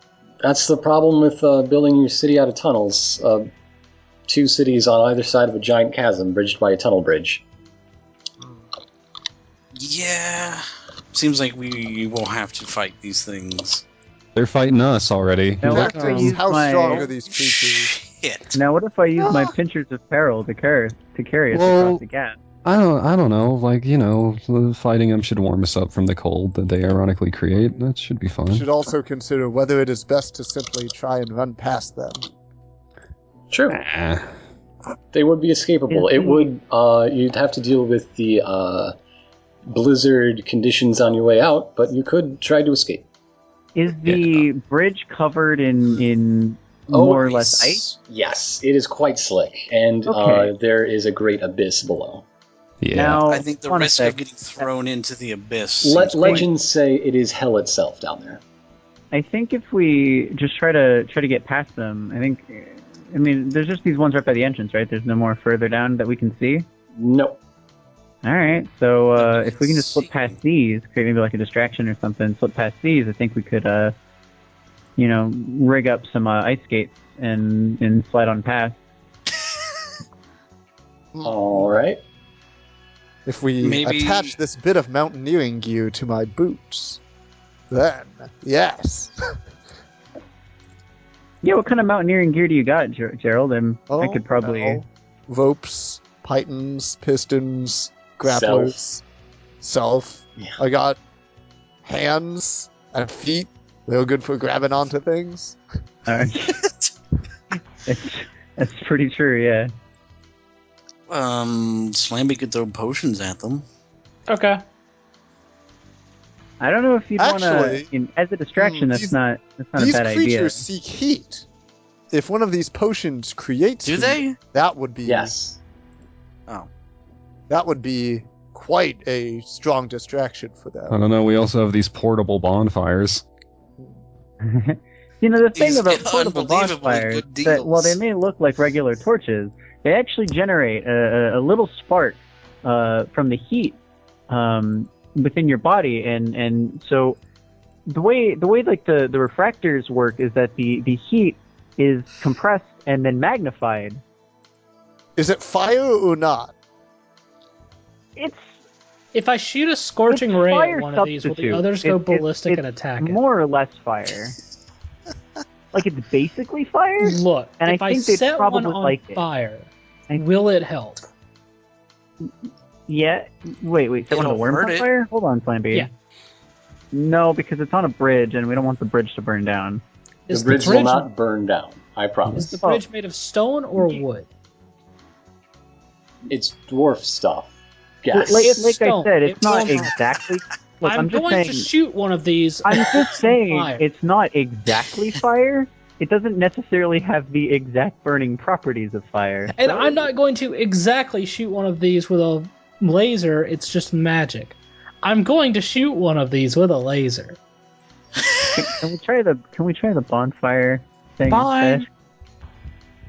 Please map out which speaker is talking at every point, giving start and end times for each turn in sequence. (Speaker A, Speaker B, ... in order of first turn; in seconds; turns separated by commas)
Speaker A: 0.4-3.5, Speaker A: 4.3-7.4, Speaker B: 9.7-13.8, Speaker C: 14.3-16.2, Speaker D: 15.6-17.1, Speaker E: 15.6-17.9, Speaker B: 17.3-18.5, Speaker D: 18.5-22.4, Speaker E: 19.2-19.5, Speaker C: 21.5-22.0, Speaker C: 22.6-28.6, Speaker E: 28.5-32.3, Speaker A: 33.5-33.8, Speaker C: 33.7-34.3, Speaker A: 35.1-38.9, Speaker D: 35.9-36.5, Speaker A: 39.7-43.1, Speaker D: 43.7-47.8, Speaker B: 44.0-44.4, Speaker A: 46.9-47.2, Speaker B: 47.0-48.0, Speaker A: 48.1-52.2, Speaker D: 50.1-50.5, Speaker C: 52.8-53.2, Speaker D: 52.9-54.7, Speaker B: 53.3-56.5, Speaker A: 55.8-58.4, Speaker D: 59.1-66.7, Speaker A: 67.0-67.4, Speaker D: 68.2-74.0, Speaker B: 69.2-70.3, Speaker D: 75.0-78.8, Speaker E: 81.1-81.6, Speaker A: 81.2-82.0, Speaker E: 83.2-87.0, Speaker B: 83.6-84.3, Speaker E: 87.7-89.4, Speaker D: 91.4-94.8, Speaker E: 93.9-99.0, Speaker A: 98.2-98.8, Speaker E: 99.6-101.0, Speaker E: 101.8-105.6, Speaker D: 106.1-106.7, Speaker B: 106.6-106.9, Speaker D: 107.8-109.7, Speaker B: 111.1-113.6, Speaker F: 114.3-114.6, Speaker D: 116.6-120.6, Speaker E: 117.2-117.9, Speaker E: 118.6-119.1, Speaker E: 119.8-121.5, Speaker E: 122.1-125.3, Speaker B: 123.8-124.4, Speaker A: 125.1-125.6, Speaker E: 127.5-131.0, Speaker C: 130.9-133.2, Speaker D: 134.4-143.8, Speaker B: 135.6-138.0, Speaker D: 144.3-147.2, Speaker D: 147.9-154.0, Speaker E: 155.2-156.5, Speaker D: 158.2-158.5, Speaker F: 159.1-163.2, Speaker D: 160.1-164.3, Speaker D: 165.7-169.2, Speaker F: 167.0-171.1, Speaker D: 172.9-175.9, Speaker B: 174.1-174.9, Speaker D: 176.9-179.8, Speaker F: 180.3-181.1, Speaker A: 180.3-182.6, Speaker F: 182.3-184.3, Speaker D: 182.6-182.8, Speaker A: 186.3-187.5, Speaker A: 188.0-188.5, Speaker D: 188.1-191.7, Speaker F: 188.3-189.9, Speaker B: 189.4-189.7, Speaker F: 190.8-193.8, Speaker D: 192.6-199.8, Speaker F: 199.6-207.4, Speaker D: 208.5-211.9, Speaker F: 211.2-211.9